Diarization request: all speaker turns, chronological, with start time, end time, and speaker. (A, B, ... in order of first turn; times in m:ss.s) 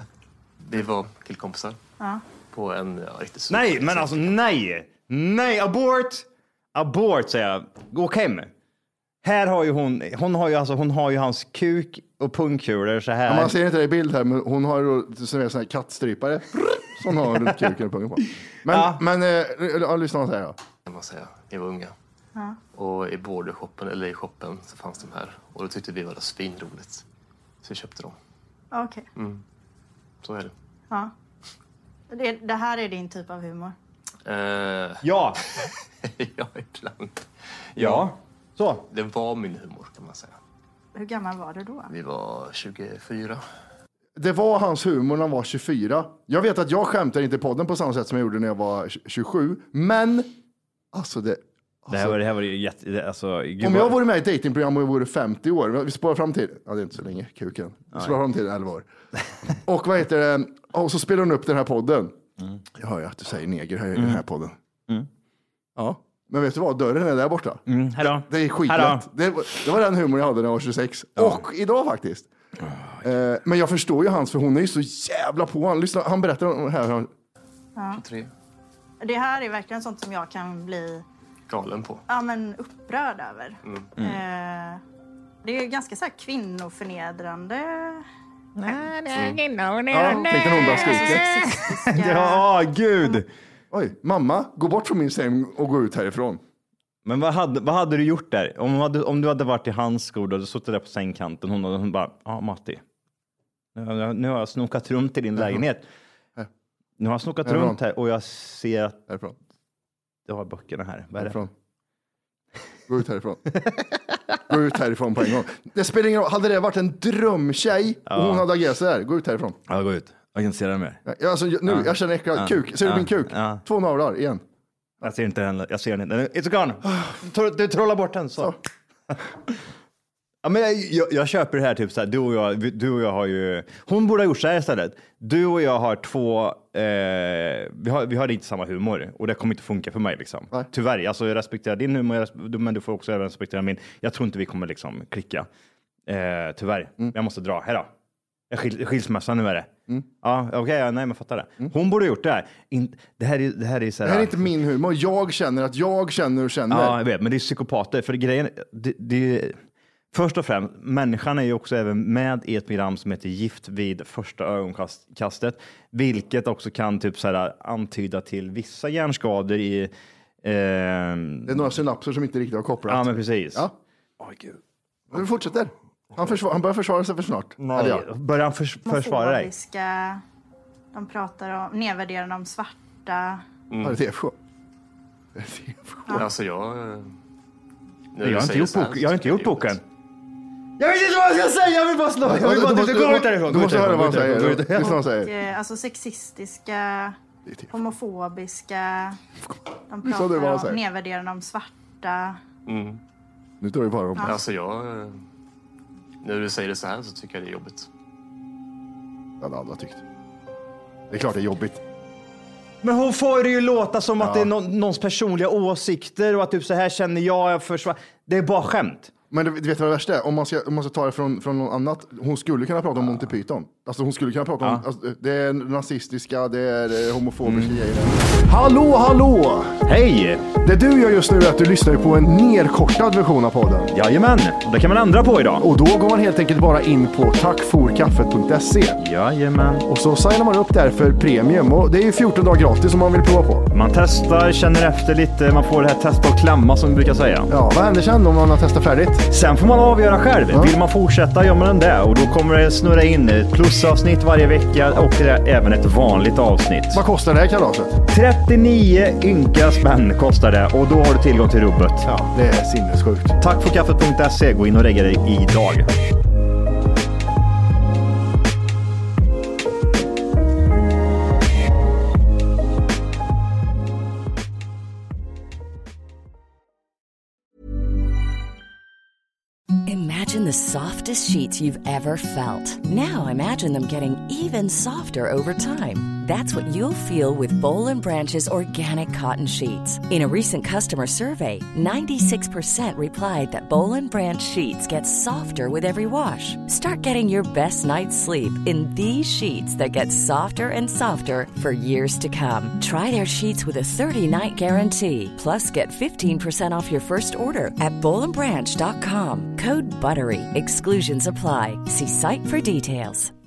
0:00.6-0:01.8 A
0:02.0-0:02.2 B
0:02.5-0:04.3 A
0:03.5-0:08.5 C
0:09.2-0:13.6 C
0:13.3-0:20.6 D
0:18.7-0:19.0 C
0:20.9-0:21.9 A
0:22.7-0:27.0 A
0:27.6-0:28.2 A
0:28.7-0:29.1 B
0:29.2-0:29.4 A
0:30.2-0:30.5 A
0:32.1-0:33.8 B
0:34.2-0:35.0 A
0:35.0-0:35.4 C
0:35.6-0:38.1 A
0:37.8-0:38.9 C
0:38.9-0:40.4 A
0:41.0-0:41.9 B
0:41.9-0:43.4 A
0:44.2-0:50.3 D
0:50.9-0:52.2 D
0:51.9-0:54.0 C
0:53.6-0:58.9 D
0:59.6-1:02.2 D
1:02.8-1:04.6 D
1:05.8-1:12.3 D
1:07.7-1:09.1 C
1:12.6-1:13.0 C
1:13.0-1:17.1 D
1:17.8-1:18.0 B
1:17.9-1:18.3 A
1:19.0-1:21.1 B
1:21.5-1:22.0 A
1:22.1-1:24.8 B
1:23.6-1:23.9 A
1:25.4-1:28.1 B
1:28.6-1:33.3 C
1:29.1-1:29.5 A
1:29.9-1:31.3 D
1:30.0-1:32.5 B
1:33.7-1:36.4 D
1:37.0-1:42.8 C
1:43.8-1:45.9 C
1:47.0-1:49.0 C
1:47.4-1:47.8 D
1:49.1-1:49.4 D
1:50.3-1:51.4 C
1:51.2-1:51.5 D
1:52.9-1:53.5 D
1:54.5-1:59.6 D
1:58.1-1:58.5 C
1:59.7-2:01.0 C
2:01.1-2:04.4 D
2:01.7-2:03.6 C
2:05.0-2:08.6 C
2:09.1-2:09.6 C
2:10.4-2:25.5 C
2:26.1-2:27.9 C
2:28.5-2:29.7 C
2:30.2-2:34.5 C
2:34.0-2:37.0 D
2:36.7-2:39.6 C
2:40.1-2:49.9 C
2:50.4-2:51.7 C
2:51.5-2:53.7 D
2:52.9-2:53.7 C
2:54.2-2:54.6 C
2:55.1-2:58.1 D
2:57.6-2:59.5 C
2:58.8-3:00.2 B
3:00.9-3:03.4 B
3:03.7-3:04.0 A
3:03.8-3:04.4 D
3:05.4-3:06.3 D
3:06.2-3:07.1 A
3:08.1-3:09.8 A
3:08.2-3:09.8 C
3:10.8-3:15.0 C
3:12.2-3:15.3 D
3:14.9-3:17.2 B
3:17.5-3:17.7 D
3:17.7-3:19.2 B
3:19.9-3:22.4 B
3:20.0-3:20.8 D
3:22.7-3:23.0 A
3:23.6-3:24.4 D
3:24.2-3:25.2 A
3:26.2-3:27.9 A
3:29.4-3:30.0 D
3:31.1-3:31.8 D
3:32.8-3:39.1 C
3:34.2-3:34.5 D
3:39.3-3:49.8 D
3:47.4-3:47.8 C
3:49.9-3:50.5 C
3:50.6-3:53.9 D
3:53.9-3:55.7 C
3:55.6-3:59.0 D
3:59.0-3:59.9 C
3:59.9-4:03.7 D
4:03.7-4:07.5 C
4:07.5-4:09.3 D
4:09.3-4:17.0 C
4:16.9-4:18.0 D
4:18.1-4:22.1 C
4:22.0-4:23.4 D
4:23.4-4:25.9 C
4:39.8-5:13.3 E